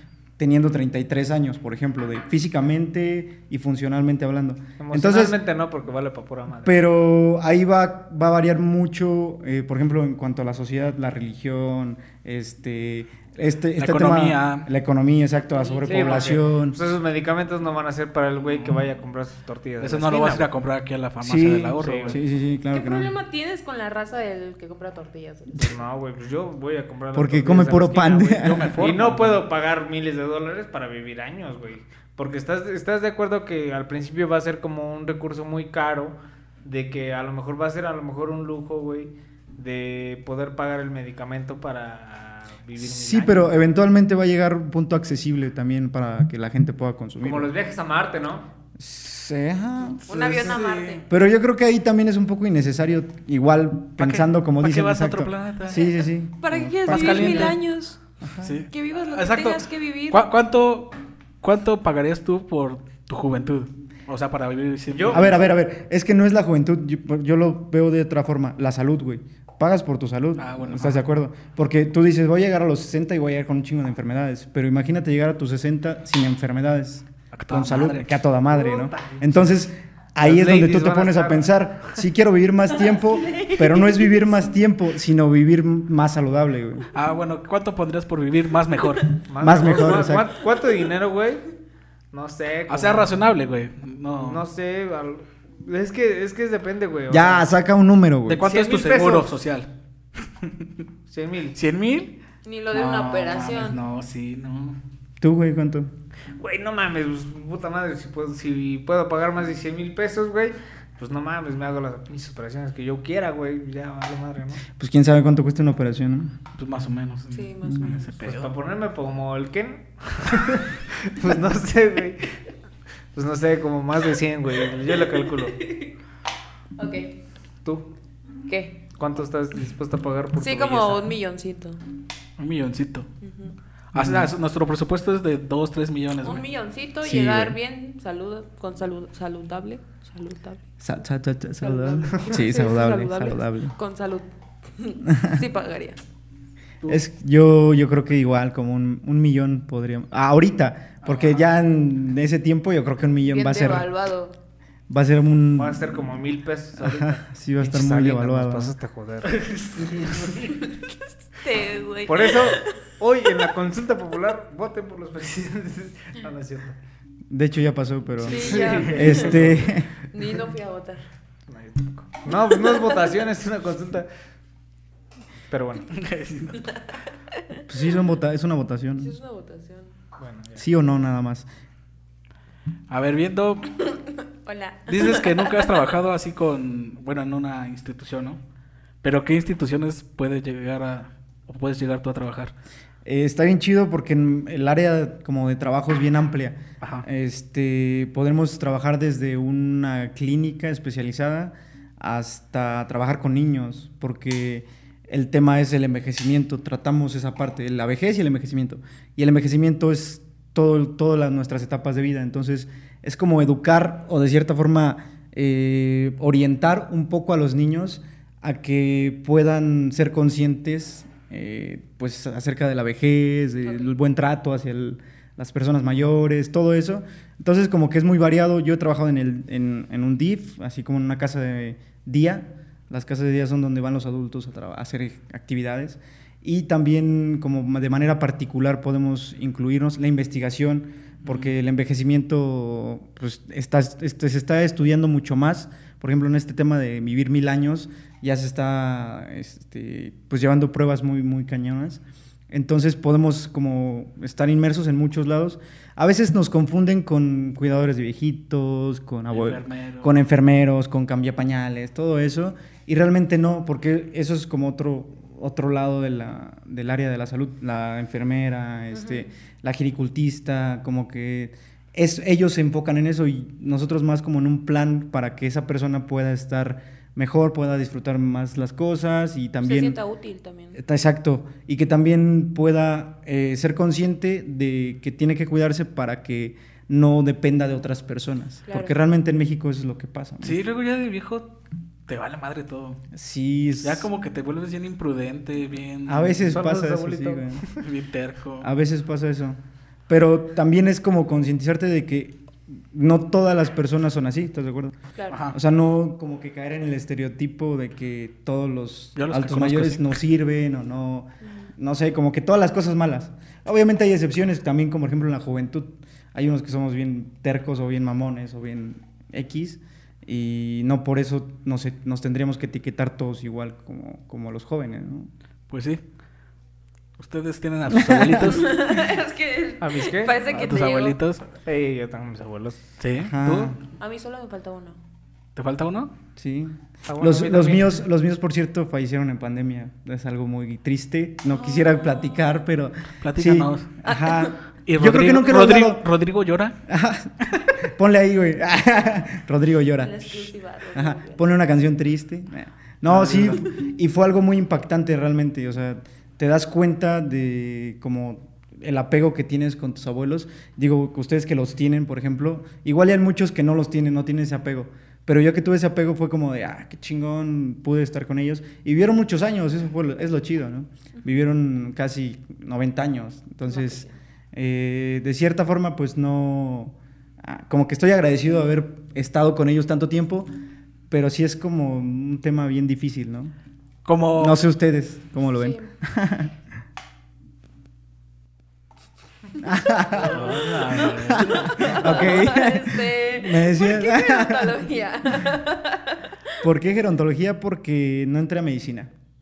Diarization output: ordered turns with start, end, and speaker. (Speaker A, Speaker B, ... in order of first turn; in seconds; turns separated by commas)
Speaker A: 0.4-5.4, Speaker B: 4.8-6.8, Speaker A: 6.6-16.8, Speaker C: 13.8-14.7, Speaker D: 15.5-16.1, Speaker B: 15.8-20.5, Speaker C: 19.8-22.2, Speaker A: 21.2-23.1, Speaker B: 21.8-22.2, Speaker D: 22.7-25.7, Speaker B: 25.6-43.6, Speaker A: 27.1-28.7, Speaker C: 28.4-29.4, Speaker A: 42.8-47.5, Speaker B: 47.2-48.5, Speaker A: 48.8-50.6, Speaker D: 50.1-51.1, Speaker C: 50.1-51.0, Speaker A: 51.1-57.6, Speaker C: 54.0-55.9, Speaker D: 56.4-58.0, Speaker C: 56.9-57.6, Speaker A: 58.2-58.6, Speaker C: 58.4-65.3, Speaker D: 58.7-60.3, Speaker B: 64.9-65.4, Speaker A: 65.1-86.9, Speaker C: 70.4-71.0, Speaker C: 77.3-78.2, Speaker B: 78.5-79.5, Speaker B: 80.2-81.5, Speaker D: 83.0-84.1, Speaker C: 86.9-89.2, Speaker B: 89.3-91.5, Speaker A: 89.4-90.3, Speaker B: 92.1-93.1, Speaker C: 92.7-94.4, Speaker B: 94.1-97.5, Speaker A: 97.1-98.4, Speaker C: 98.3-99.7, Speaker B: 98.4-99.3, Speaker C: 100.4-100.7, Speaker B: 101.1-101.6, Speaker C: 101.5-102.2, Speaker D: 102.5-103.8, Speaker C: 102.7-104.8, Speaker A: 105.2-105.9, Speaker B: 106.4-114.6, Speaker A: 114.8-116.3, Speaker C: 116.6-118.5, Speaker D: 117.3-118.0, Speaker A: 117.7-118.0, Speaker B: 118.2-122.3, Speaker B: 123.1-125.6, Speaker D: 125.6-125.9, Speaker D: 126.8-127.1, Speaker D: 128.5-128.8, Speaker B: 129.0-131.1, Speaker D: 130.4-131.8, Speaker C: 132.4-133.1, Speaker D: 133.2-133.5, Speaker C: 133.9-136.4, Speaker A: 133.9-134.3, Speaker D: 136.2-140.6, Speaker A: 137.1-137.5, Speaker A: 140.8-143.8, Speaker D: 141.6-146.0, Speaker A: 145.1-145.4, Speaker A: 146.9-153.9, Speaker C: 151.0-151.4, Speaker D: 153.3-154.4, Speaker A: 154.9-156.0, Speaker B: 155.6-159.4, Speaker A: 156.8-158.7, Speaker C: 159.2-160.5, Speaker D: 161.4-162.8, Speaker B: 162.1-166.8, Speaker A: 167.3-169.9, Speaker D: 168.2-169.4, Speaker B: 168.3-169.8, Speaker C: 168.4-169.6, Speaker D: 170.0-171.0, Speaker B: 171.5-174.1, Speaker B: 175.5-175.9, Speaker C: 175.9-176.8, Speaker A: 177.7-179.2, Speaker D: 179.0-179.9, Speaker B: 180.2-180.7, Speaker A: 180.6-181.5, Speaker C: 182.9-183.8, Speaker D: 184.4-185.7, Speaker C: 184.9-188.4, Speaker C: 189.0-192.5, Speaker A: 193.1-280.0, Speaker C: 241.2-241.5, Speaker C: 259.3-260.1, Speaker D: 268.9-269.3, Speaker D: 279.6-280.8, Speaker A: 280.8-290.6, Speaker D: 288.7-288.9, Speaker C: 290.4-291.5, Speaker C: 292.1-293.0, Speaker A: 293.1-294.1, Speaker C: 293.8-296.6, Speaker A: 296.1-297.6, Speaker B: 296.5-297.8, Speaker C: 297.7-298.7, Speaker A: 298.6-304.9, Speaker C: 305.3-305.6, Speaker A: 305.5-325.3, Speaker C: 309.2-310.1, Speaker D: 311.4-311.7, Speaker C: 325.7-326.0, Speaker C: 327.2-328.8, Speaker A: 327.9-328.6, Speaker D: 328.5-331.2, Speaker B: 329.8-330.4, Speaker C: 330.5-331.5, Speaker B: 331.6-332.8, Speaker C: 333.0-333.8, Speaker A: 333.2-333.8, Speaker D: 334.0-335.0, Speaker C: 335.6-336.1, Speaker A: 336.4-346.0, Speaker B: 337.1-338.0, Speaker D: 341.5-342.3, Speaker C: 343.2-344.0, Speaker D: 344.1-344.5, Speaker C: 344.9-346.8, Speaker A: 346.9-380.5, Speaker D: 350.0-351.4, Speaker C: 353.1-353.7, Speaker D: 373.7-374.1, Speaker A: 381.1-383.5, Speaker C: 384.1-384.6, Speaker A: 384.4-386.5, Speaker D: 385.5-385.9, Speaker A: 389.6-394.9, Speaker B: 390.2-391.5, Speaker C: 390.3-392.1, Speaker D: 390.5-396.5, Speaker A: 396.6-399.1